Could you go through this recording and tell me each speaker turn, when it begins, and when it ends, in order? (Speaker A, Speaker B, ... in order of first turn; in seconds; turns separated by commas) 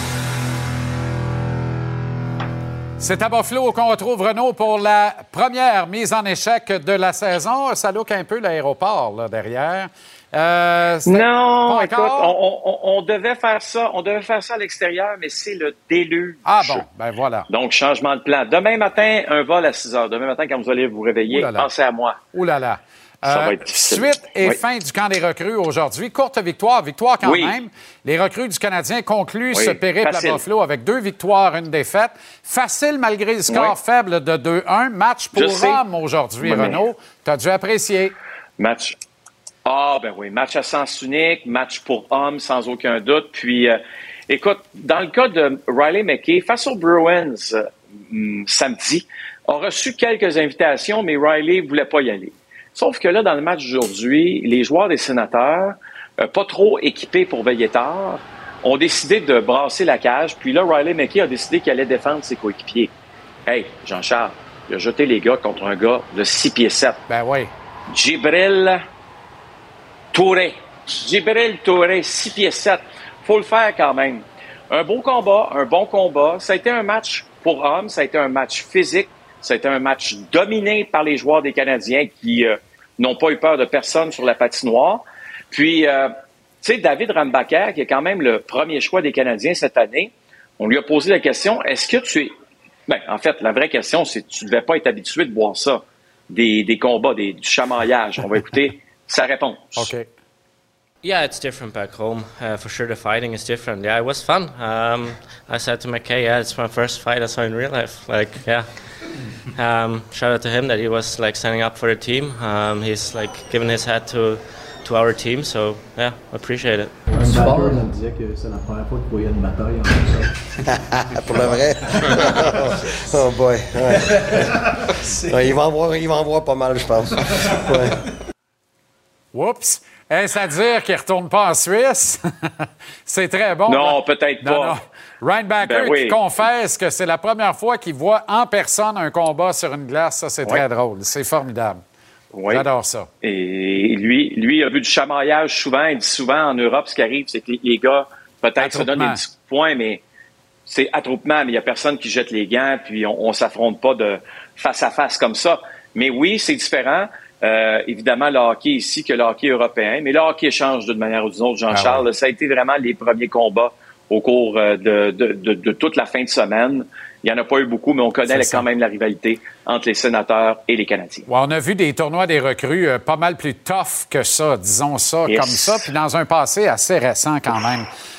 Speaker A: 3.0-12.3, Speaker B: 11.1-16.8, Speaker A: 16.4-17.5, Speaker B: 17.5-22.2, Speaker A: 21.3-21.7, Speaker A: 22.3-38.1, Speaker B: 23.3-24.6, Speaker B: 27.2-27.6, Speaker B: 29.5-30.4, Speaker B: 33.5-33.7, Speaker B: 35.3-35.8, Speaker B: 36.4-36.8, Speaker B: 38.6-39.0, Speaker B: 39.6-62.9, Speaker B: 63.5-67.0, Speaker A: 67.1-67.5, Speaker B: 67.9-68.8, Speaker B: 70.1-92.3, Speaker B: 92.9-99.9, Speaker A: 99.8-100.1, Speaker C: 101.0-108.8, Speaker C: 109.5-117.0, Speaker D: 117.1-120.3, Speaker E: 120.7-124.4, Speaker E: 125.1-128.0, Speaker A: 129.3-141.8, Speaker B: 133.7-134.8, Speaker B: 135.6-136.2, Speaker B: 142.3-142.7, Speaker A: 142.5-143.1, Speaker B: 143.2-150.0, Speaker A: 148.6-149.2, Speaker B: 150.7-171.2, Speaker A: 161.7-162.0, Speaker A: 168.3-168.6, Speaker A: 171.3-177.9, Speaker B: 175.3-175.9